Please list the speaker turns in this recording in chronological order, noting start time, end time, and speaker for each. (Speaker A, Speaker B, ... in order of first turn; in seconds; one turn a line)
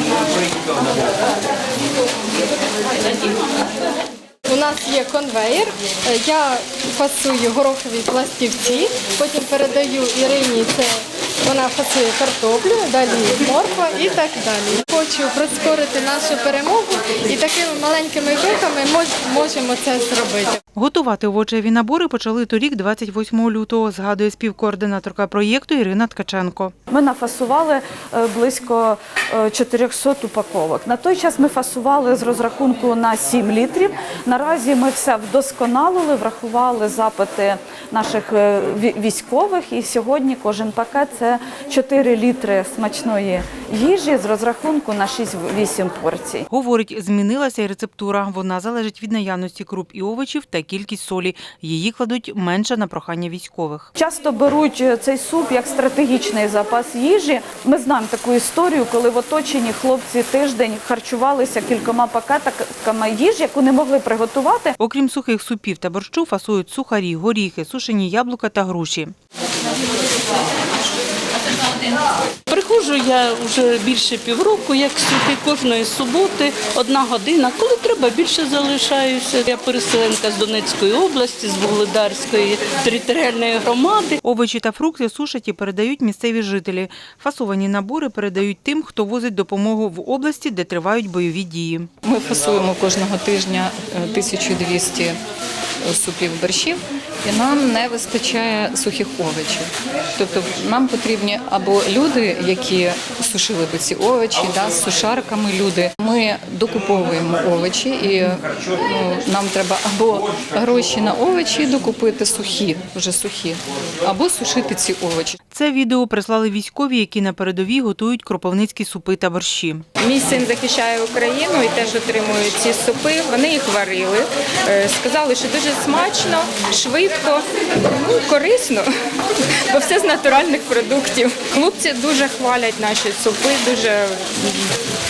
Speaker A: 4.5-20.6
Speaker B: 20.7-26.7
Speaker C: 26.9-46.5
Speaker B: 46.5-53.9
Speaker C: 54.0-64.8
Speaker B: 64.8-69.1
Speaker D: 72.5-84.2
Speaker B: 84.2-91.9
Speaker E: 92.0-95.2
Speaker E: 95.8-115.4
Speaker B: 115.5-119.8
Speaker F: 120.0-134.7